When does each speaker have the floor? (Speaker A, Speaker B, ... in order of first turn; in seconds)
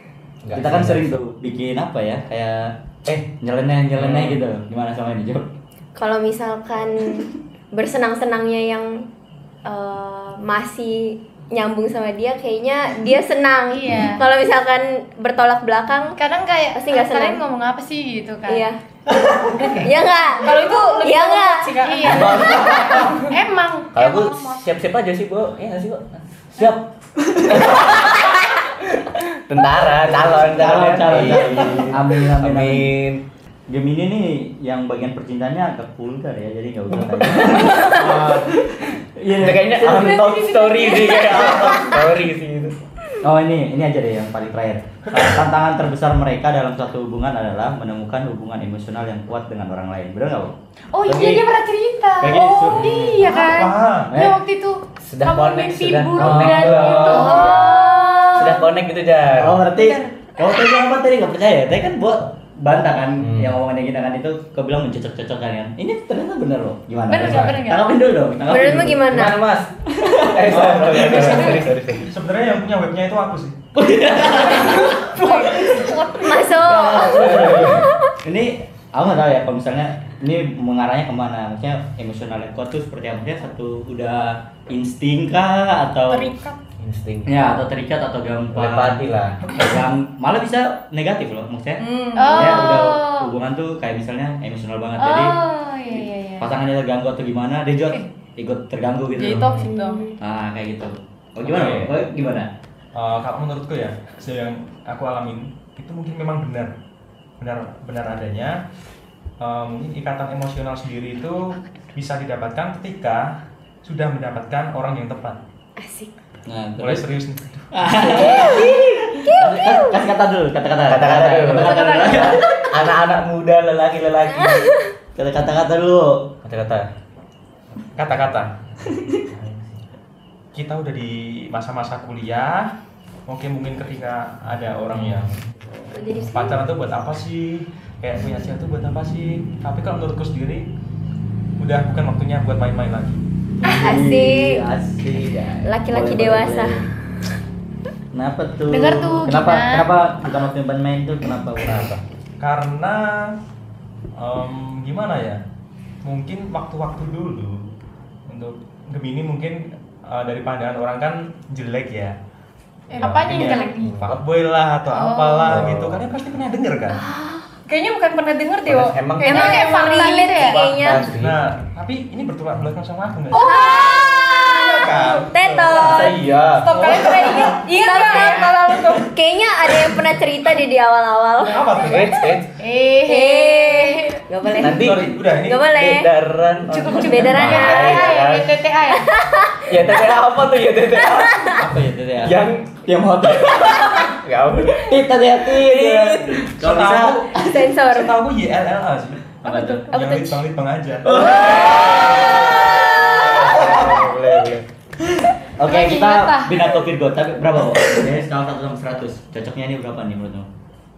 Speaker A: 0.4-1.1, 4.0-4.4, 23.9-26.7, 27.6-28.1, 29.5-33.2, 39.4-42.7, 52.7-53.2, 55.0-57.6, 58.3-59.6, 63.2-63.5, 67.2-67.6, 69.0-72.1, 77.1-77.8, 86.8-87.3, 88.5-89.5, 99.4-99.7, 120.9-124.7, 126.4-126.9, 129.1-129.8, 135.0-135.3, 151.6-152.0, 163.0-164.2, 165.4-166.0, 168.7-169.8, 170.5-171.4, 175.8-176.7, 181.9-182.5, 184.6-188.6, 189.7-191.6, 192.2-192.7, 193.5-196.4, 201.2-202.6, 203.2-204.6
Speaker B: 0.5-2.7, 3.4-5.5, 22.0-23.2, 26.6-28.1, 30.2-32.9, 33.7-40.7, 41.3-41.9, 43.2-51.5, 52.2-53.2, 54.1-54.4, 56.1-57.9, 59.4-69.1, 69.9-71.0, 73.7-86.3, 87.2-95.4, 96.4-99.6, 100.2-102.5, 116.5-117.0, 117.7-122.6, 125.1-126.3, 143.6-146.9, 148.1-151.9, 191.4-194.1, 194.7-197.7, 199.4-199.9, 201.1-202.3, 203.5-203.9, 205.0-210.5
Speaker C: 6.0-9.1, 9.6-16.2, 16.7-17.4, 18.5-18.8, 19.8-21.7, 57.2-58.4, 68.5-69.4, 75.9-77.9, 99.7-100.0, 115.8-116.1, 118.1-120.0, 124.3-124.8, 135.9-136.6, 143.6-144.6, 145.7-146.8, 166.9-167.4, 169.2-171.1, 173.3-176.2, 177.5-181.7, 183.0-186.1, 187.0-188.3, 188.9-189.9, 191.2-191.5, 197.3-198.2, 199.9-200.3, 201.3-203.3
Speaker D: 13.7-14.2, 16.2-18.7, 19.6-19.9, 21.8-24.7, 40.2-41.1, 50.9-58.6, 59.7-60.7, 67.1-67.9, 75.2-75.6, 92.1-93.3, 95.0-96.5, 121.7-122.5, 148.7-149.9, 162.9-164.0, 164.9-165.6, 169.2-170.7, 173.3-173.9, 177.8-178.4, 182.5-184.2, 186.7-189.1, 199.5-199.8, 205.6-206.8
Speaker E: 20.4-22.5, 75.2-75.8, 86.1-86.6, 91.8-92.8, 99.2-100.0, 163.3-163.7, 167.7-170.5, 173.3-174.1, 176.6-179.1
Speaker F: 37.8-38.5, 53.2-54.1, 70.5-73.6, 101.5-101.9, 102.9-106.7, 107.4-108.6, 109.4-115.4, 116.8-118.1, 128.0-128.5, 130.5-132.7, 133.3-135.4, 136.1-140.7, 141.6-143.2, 152.4-153.3, 154.2-155.4, 156.0-157.7, 158.3-162.2, 163.0-167.0, 170.9-173.5, 174.2-177.6, 181.5-182.2, 184.7-185.7, 196.5-201.2